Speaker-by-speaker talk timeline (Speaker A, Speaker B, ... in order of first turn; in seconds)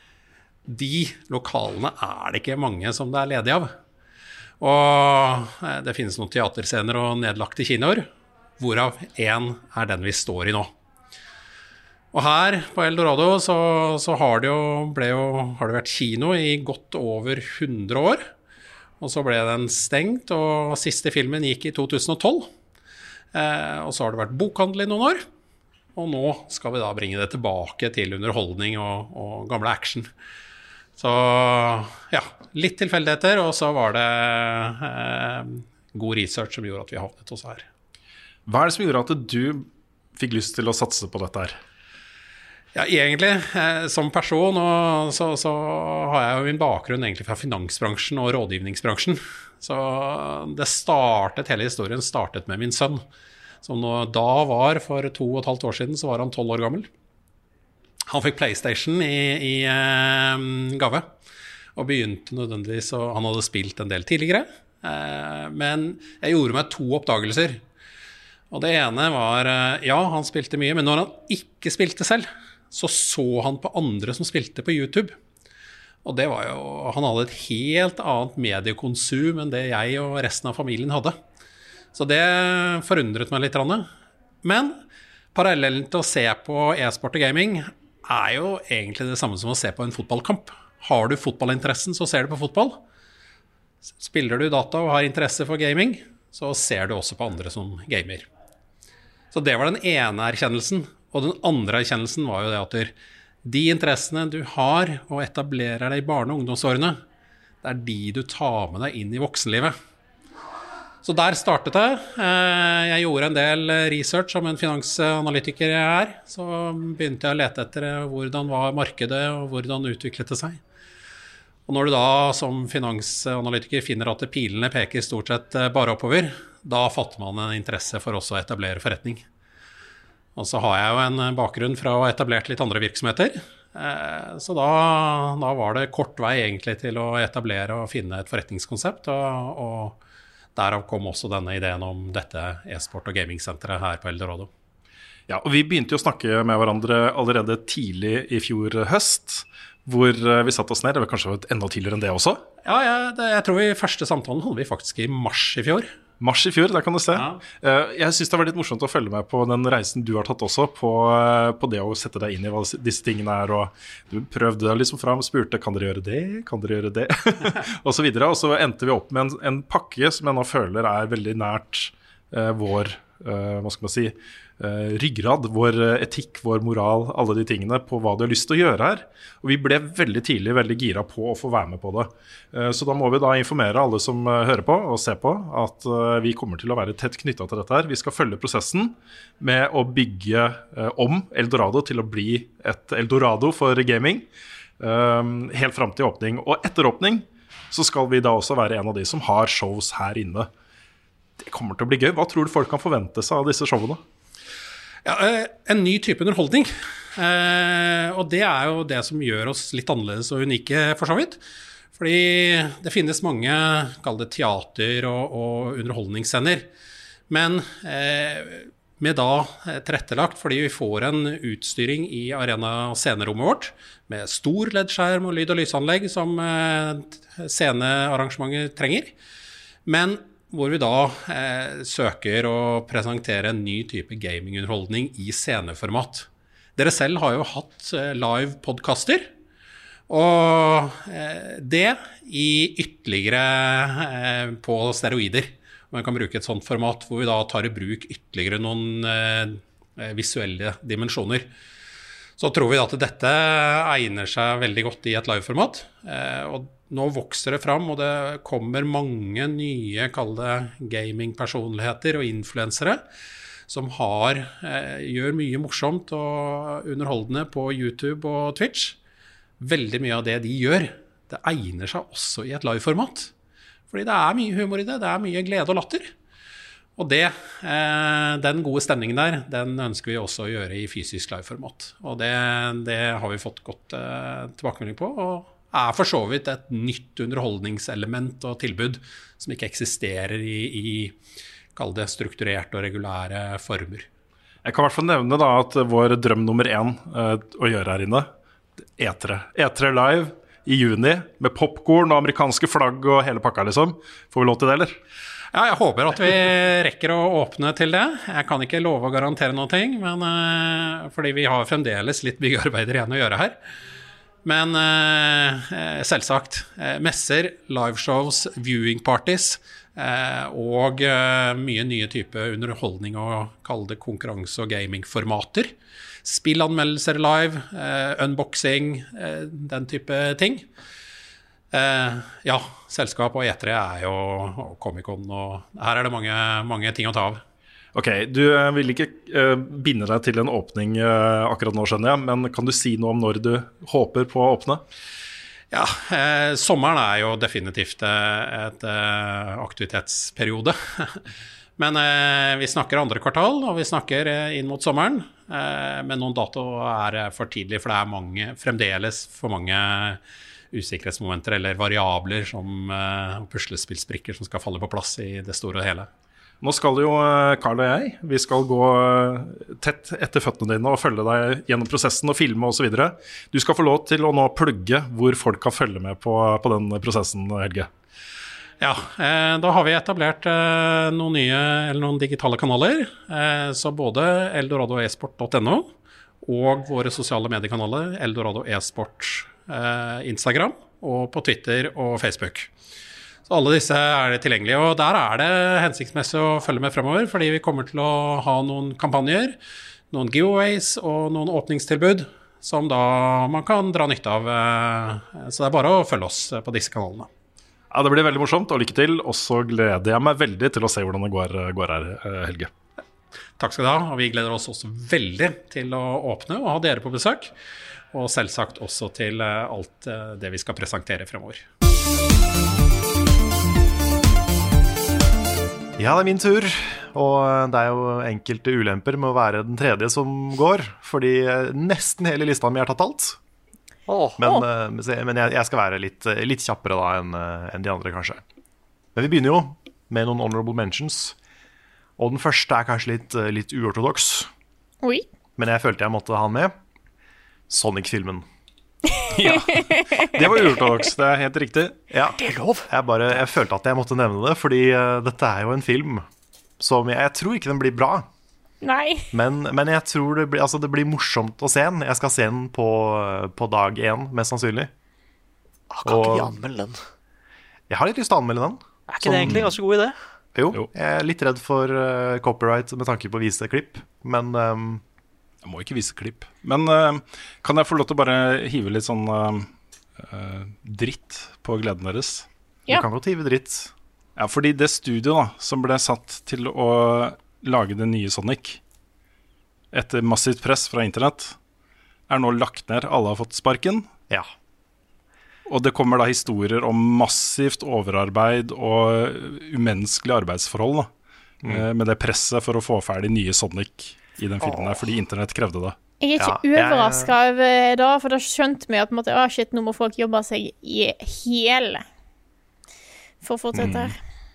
Speaker A: 0.7-3.7, 4.6-8.1, 8.6-10.7, 12.1-18.3, 19.0-22.5, 23.3-25.2, 25.9-30.1, 31.0-37.7, 42.7-53.0, 53.6-56.9, 58.0-61.1, 61.8-67.6, 68.5-75.2, 76.0-81.2, 81.9-83.9, 84.4-84.8, 85.3-92.8, 94.0-98.3, 99.3-102.9, 103.4-107.0, 107.6-109.8, 111.0-120.6, 121.7-129.2, 130.3-140.0, 140.5-144.5, 152.6-155.9, 157.1-157.4, 205.0-211.4, 211.9-216.7, 217.3-229.1, 229.8-239.3, 240.1-251.5, 252.4-263.0, 263.7-269.0, 269.6-273.3, 273.9-276.1, 277.0-291.2, 291.7-294.1, 305.5-313.6, 314.4-330.7, 331.7-337.4, 345.7-351.2, 351.8-360.2, 360.7-366.1, 378.8-385.9, 386.4-392.7, 393.5-399.6, 400.1-407.3, 413.6-417.5, 418.1-421.6
Speaker B: 38.5-41.5, 145.3-152.4, 156.2-194.2, 194.8-200.5, 201.4-204.0, 294.6-298.3, 299.0-305.0, 337.9-344.8, 366.6-377.9, 407.9-412.7, 449.3-452.0, 469.4-469.7, 475.6-482.5, 484.4-488.8, 489.9-491.6, 492.3-494.1, 495.7-501.1, 501.6-505.9, 513.7-514.1
Speaker C: 426.0-433.4, 434.4-438.4, 439.1-441.4, 442.2-444.5, 445.6-446.7, 447.7-448.4, 452.1-456.2, 456.8-458.3, 459.3-464.9, 466.0-466.6, 467.9-469.7, 470.5-475.0, 482.9-483.9, 506.4-507.3
Speaker D: 434.1-434.5, 452.4-452.9, 465.9-467.0, 469.1-470.1
Speaker E: 449.5-450.3, 458.8-459.3, 506.2-512.0, 513.4-514.2